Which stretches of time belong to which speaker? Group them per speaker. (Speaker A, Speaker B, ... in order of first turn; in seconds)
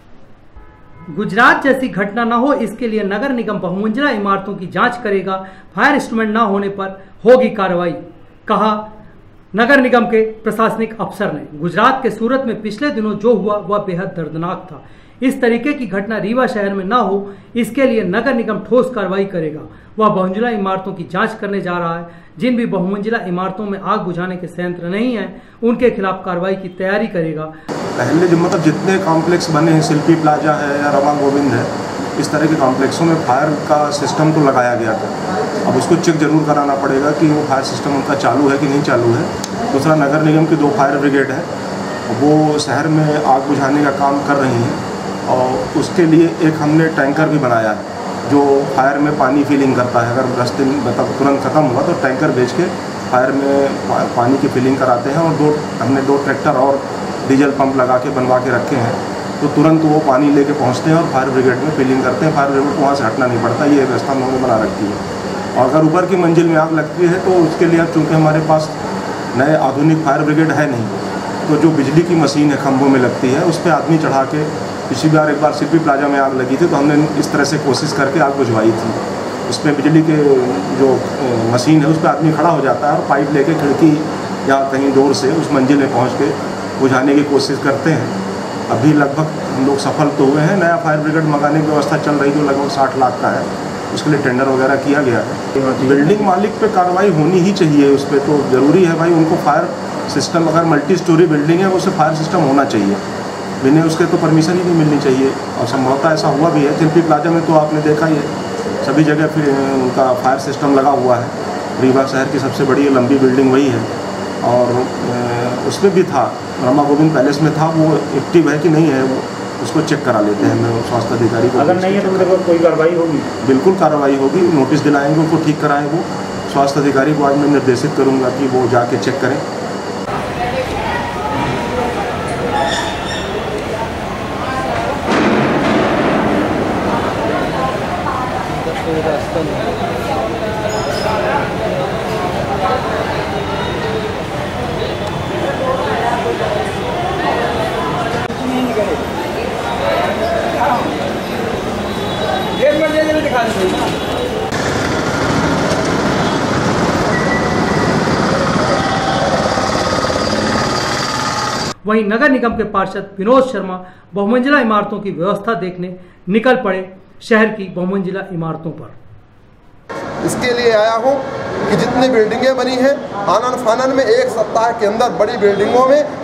Speaker A: 1.1-8.8, 9.5-27.5, 161.8-168.9
Speaker B: 27.9-41.5, 42.1-65.0, 65.5-68.8, 69.3-88.1, 88.7-103.0, 103.6-108.3, 108.8-113.9, 114.4-122.4, 123.4-129.4
Speaker C: 95.6-96.0, 121.5-123.3
Speaker D: 170.2-176.1